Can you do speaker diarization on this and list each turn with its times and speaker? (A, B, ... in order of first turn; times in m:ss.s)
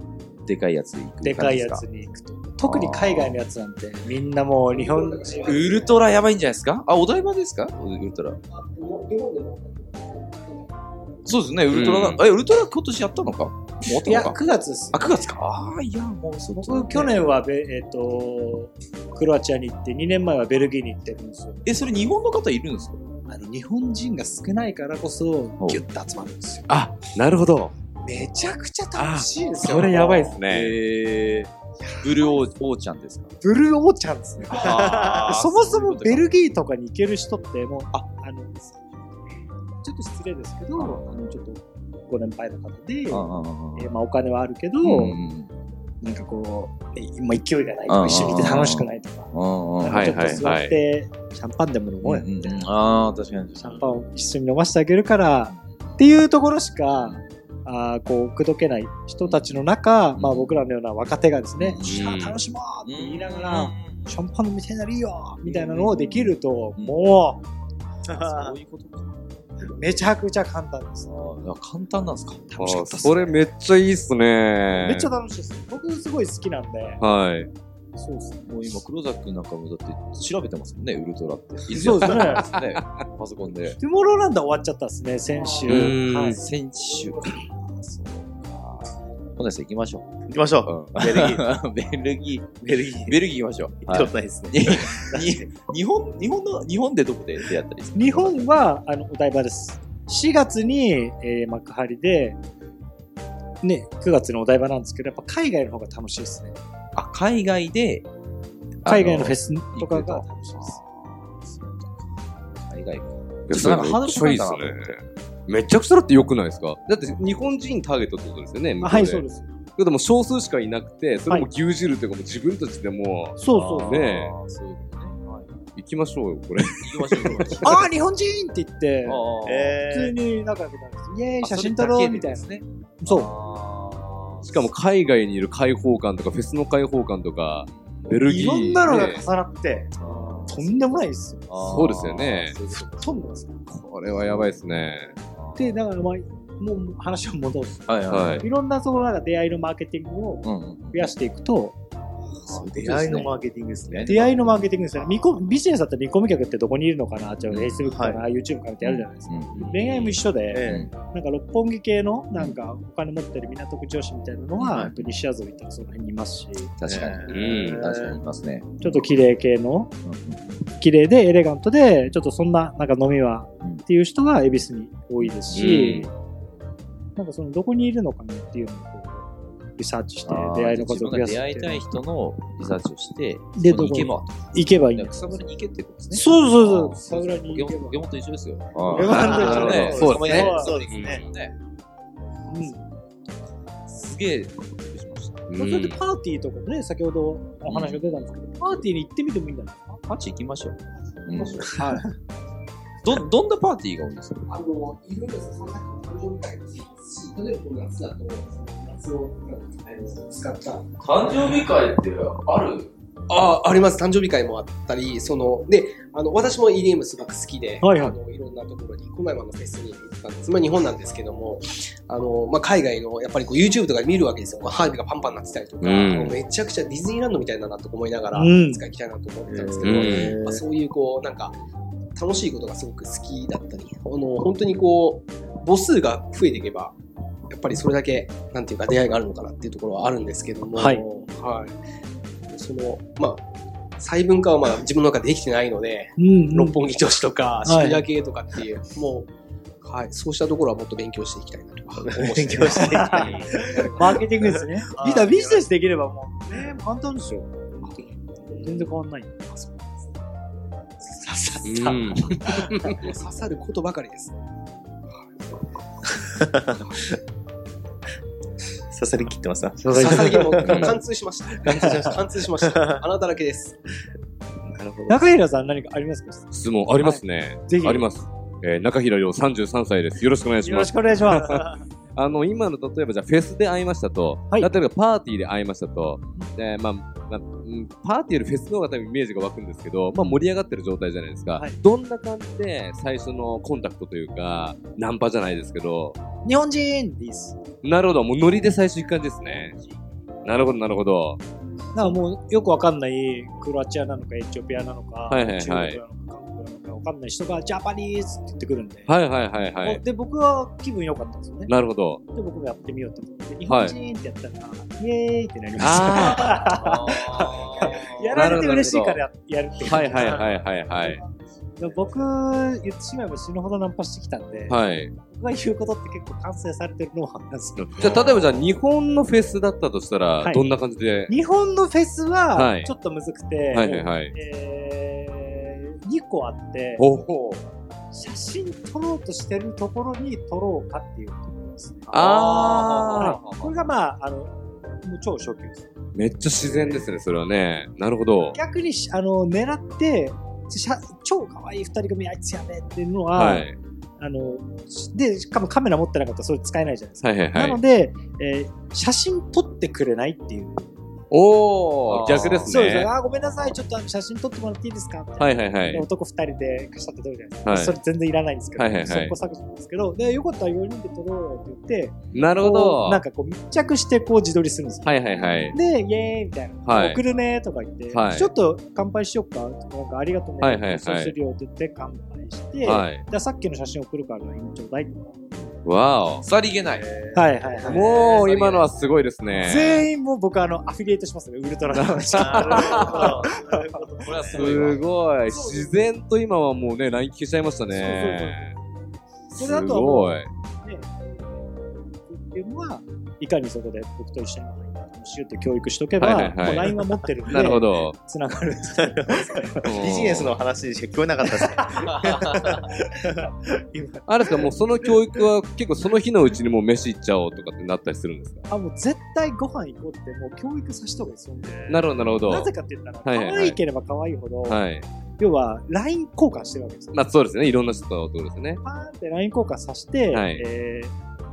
0:00.4-0:01.8 A
0:01.2-0:05.8 B
0:02.6-0:03.4 A
0:04.7-0:05.8 C
0:05.5-0:08.4 A
0:08.5-0:10.8 C
0:11.3-0:14.4 A
0:11.7-0:12.2 D
0:13.8-0:15.2 B
0:14.9-0:17.2 A
0:16.6-0:21.6 B
0:21.6-0:23.0 A
0:23.3-0:26.7 B
0:26.7-0:27.7 D
0:28.0-0:30.4 B
0:29.0-0:30.8 D
0:29.7-0:30.0 C
0:30.4-0:33.3 A
0:31.8-0:32.4 B
0:33.4-0:39.0 B
0:34.4-0:36.6 A
0:39.8-0:45.2 B
0:40.8-0:41.0 A
0:43.1-0:43.9 A
0:44.8-0:45.5 A
0:46.0-0:49.3 B
0:47.9-0:50.4 A
0:49.8-0:52.7 B
0:49.9-0:50.8 D
0:52.0-0:54.0 A
0:53.6-1:07.4 B
0:55.6-0:55.9 A
0:57.0-0:57.3 A
0:59.2-0:59.5 A
1:00.2-1:00.6 A
1:01.6-1:02.1 A
1:01.8-1:02.4 D
1:02.8-1:04.2 A
1:05.4-1:07.1 A
1:08.1-1:09.7 A
1:08.2-1:08.5 E
1:09.7-1:11.1 B
1:11.1-1:12.7 A
1:12.5-1:13.4 B
1:12.6-1:15.1 D
1:14.7-1:17.0 B
1:17.0-1:17.5 D
1:18.0-1:18.5 B
1:18.5-1:23.8 A
1:21.7-1:22.5 B
1:22.0-1:22.8 D
1:23.8-1:26.4 B
1:25.7-1:26.4 D
1:25.7-1:38.5 A
1:30.3-1:31.5 E
1:33.9-1:35.5 E
1:38.0-1:42.4 B
1:43.6-1:46.6 B
1:47.0-1:48.1 A
1:48.8-1:50.8 B
1:48.8-1:51.9 A
1:52.6-1:55.0 A
1:53.5-1:59.3 D
1:58.8-1:59.5 B
1:59.8-2:04.4 D
2:03.4-2:04.0 B
2:03.5-2:05.6 A
2:05.8-2:07.6 D
2:06.8-2:07.9 A
2:07.6-2:09.2 B
2:09.0-2:09.8 A
2:09.4-2:10.2 E
2:09.8-2:13.3 B
2:11.4-2:14.7 A
2:14.4-2:19.2 D
2:17.7-2:18.3 A
2:18.2-2:21.5 B
2:20.0-2:23.3 A
2:21.6-2:22.6 D
2:22.8-2:23.6 B
2:23.7-2:25.1 D
2:24.1-2:24.6 A
2:25.3-2:25.7 A
2:25.6-2:31.8 B
2:27.9-2:28.5 A
2:28.1-2:28.5 D
2:30.4-2:31.1 A
2:32.5-2:33.3 D
2:32.5-2:34.6 E
2:33.8-2:34.2 A
2:34.1-2:48.2 B
2:37.5-2:37.9 A
2:37.9-2:38.2 E
2:38.8-2:39.8 A
2:39.6-2:40.2 D
2:40.5-2:40.8 E
2:40.7-2:40.9 A
2:44.6-2:45.1 A
2:46.8-2:49.1 A
2:46.9-2:47.9 D
2:47.0-2:47.3 E
2:48.8-2:49.9 B
2:50.0-2:50.6 A
2:50.7-2:56.1 B
2:55.2-2:56.1 A
2:55.5-2:56.1 D
2:57.2-3:01.9 B
3:00.3-3:11.6 A
3:03.6-3:05.5 B
3:06.1-3:08.0 B
3:08.9-3:10.8 B
3:09.0-3:11.3 D
3:09.0-3:11.2 E
3:12.5-3:12.8 B
3:13.9-3:15.5 A
3:15.5-3:16.0 D
3:15.6-3:20.2 B
3:17.7-3:18.2 A
3:20.1-3:21.8 A
3:21.7-3:22.0 C
3:23.0-3:24.6 A
3:24.5-3:30.9 C
3:31.0-3:32.9 A
3:33.3-3:51.6 C
3:37.8-3:38.2 B
3:45.8-3:46.4 D
3:48.4-3:48.8 B
3:49.5-3:50.6 E
3:49.8-3:50.4 D
3:52.2-3:57.0 C
3:57.5-4:01.8 C
4:00.8-4:01.1 B
4:02.5-4:03.4 C
4:04.0-4:09.3 C
4:06.2-4:07.0 B
4:07.6-4:08.0 B
4:09.8-4:14.1 C
4:12.0-4:15.6 E
4:12.6-4:19.8 B
4:21.1-4:22.6 B
4:21.6-4:22.9 D
4:22.7-4:24.3 C
4:26.1-4:27.1 E
4:28.9-4:30.9 E
4:29.8-4:30.7 B
4:29.9-4:33.8 C
4:30.7-4:31.0 D
4:31.6-4:33.0 E
4:31.7-4:32.1 B
4:34.7-4:35.3 D
4:35.1-4:38.1 B
4:36.5-4:56.2 D
4:40.6-4:41.7 B
4:56.4-4:57.6 B
4:57.8-4:59.8 D
5:00.4-5:01.4 D
5:02.0-5:09.1 B
5:05.3-5:06.0 D
5:09.1-5:10.0 D
5:09.8-5:11.7 B
5:11.7-5:12.2 D
5:12.3-5:20.5 B
5:13.7-5:14.0 D
5:15.8-5:16.7 D
5:16.7-5:18.2 A
5:18.3-5:19.2 D
5:19.8-5:21.2 D
5:21.8-5:24.8 B
5:24.7-5:25.1 D
5:25.3-5:28.2 B
5:27.8-5:31.3 D
5:31.3-5:37.0 B
5:32.5-5:32.9 D
5:33.7-5:34.3 D
5:37.0-5:37.6 D
5:38.1-5:44.5 B
5:42.1-5:43.4 D
5:42.2-5:43.8 A
5:45.0-5:45.9 B
5:46.1-5:48.6 D
5:46.6-5:46.8 B
5:48.5-6:00.9 B
5:53.3-5:53.8 D
5:57.2-5:57.8 D
6:01.3-6:03.1 D
6:02.1-6:02.8 A
6:02.7-6:25.4 B
6:05.4-6:06.1 D
6:07.6-6:08.0 D
6:08.8-6:09.3 D
6:12.3-6:13.3 D
6:15.0-6:15.8 D
6:16.9-6:17.2 D
6:18.1-6:18.5 D
6:20.6-6:21.3 D
6:22.8-6:23.2 D
6:25.8-6:26.4 D
6:26.4-6:27.1 A
6:27.0-6:28.3 E
6:27.3-6:28.3 B
6:27.9-6:30.0 D
6:27.9-6:28.9 C
6:29.5-6:33.7 B
6:31.9-6:33.4 D
6:32.4-6:34.8 E
6:34.2-6:35.1 A
6:34.5-6:38.8 D
6:35.5-6:36.0 B
6:37.9-6:38.6 B
6:39.5-6:49.8 B
6:39.6-6:40.5 D
6:46.2-6:46.9 D
6:47.5-6:48.2 D
6:49.0-6:54.7 E
6:49.8-6:50.5 D
6:54.3-6:58.6 D
6:58.7-7:04.8 B
7:01.9-7:03.8 D
7:04.7-7:05.1 D
7:05.4-7:07.2 B
7:07.1-7:08.8 D
7:08.8-7:11.1 B
7:10.3-7:10.6 D